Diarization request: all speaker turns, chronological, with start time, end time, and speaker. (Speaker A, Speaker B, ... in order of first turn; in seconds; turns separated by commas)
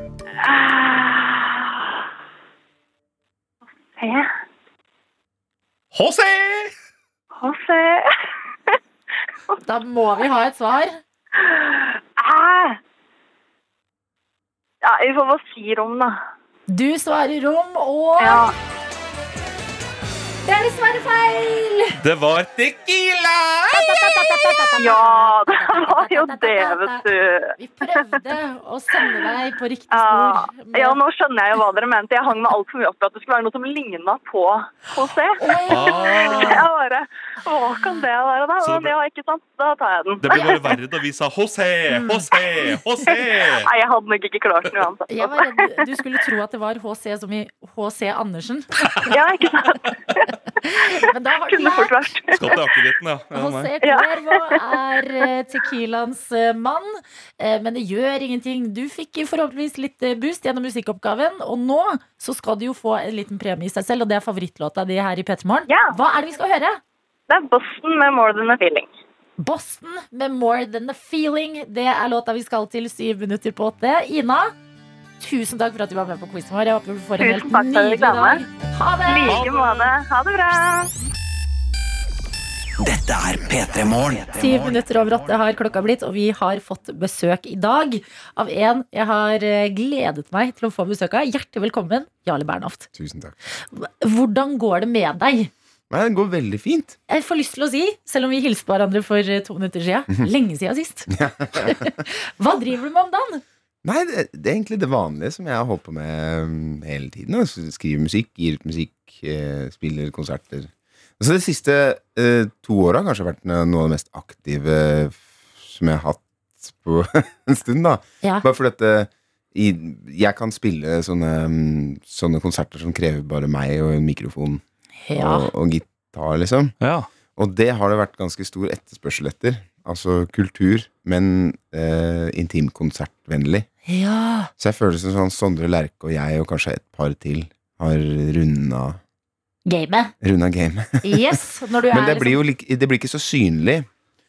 Speaker A: 0.4-2.0, Speaker A: 4.0-4.3, Speaker B: 5.9-6.7, Speaker A: 7.4-8.1, Speaker C: 9.7-11.0, Speaker A: 11.4-12.8, Speaker A: 14.8-16.2, Speaker C: 16.7-18.5, Speaker A: 18.2-18.5, Speaker C: 20.4-22.0, Speaker B: 22.0-23.9, Speaker C: 23.7-27.1, Speaker A: 24.8-27.6, Speaker C: 27.6-31.0, Speaker A: 29.9-40.6, Speaker C: 35.4-36.7, Speaker B: 35.7-36.6, Speaker C: 37.8-38.0, Speaker B: 38.6-38.9, Speaker B: 40.2-43.7, Speaker C: 41.9-42.2, Speaker A: 43.5-45.9, Speaker C: 45.1-49.1, Speaker A: 49.1-50.4, Speaker C: 50.6-52.0, Speaker A: 51.0-52.7, Speaker B: 52.3-53.7, Speaker C: 53.3-66.8, Speaker A: 53.8-54.8, Speaker A: 65.7-66.0, Speaker A: 67.3-68.9, Speaker C: 69.4-74.5, Speaker C: 75.2-79.5, Speaker A: 77.2-78.4, Speaker A: 79.1-80.9, Speaker B: 79.3-79.9, Speaker D: 82.8-84.9, Speaker C: 84.4-92.9, Speaker E: 93.0-93.3, Speaker C: 93.7-95.5, Speaker E: 95.9-97.0, Speaker C: 97.1-103.4, Speaker E: 101.1-101.9, Speaker E: 103.8-124.6, Speaker C: 125.0-125.5, Speaker E: 125.2-126.8, Speaker B: 126.8-127.1, Speaker E: 127.4-133.7, Speaker C: 133.9-134.5, Speaker E: 134.6-139.0, Speaker C: 139.7-140.1, Speaker E: 140.2-143.9, Speaker C: 141.0-142.4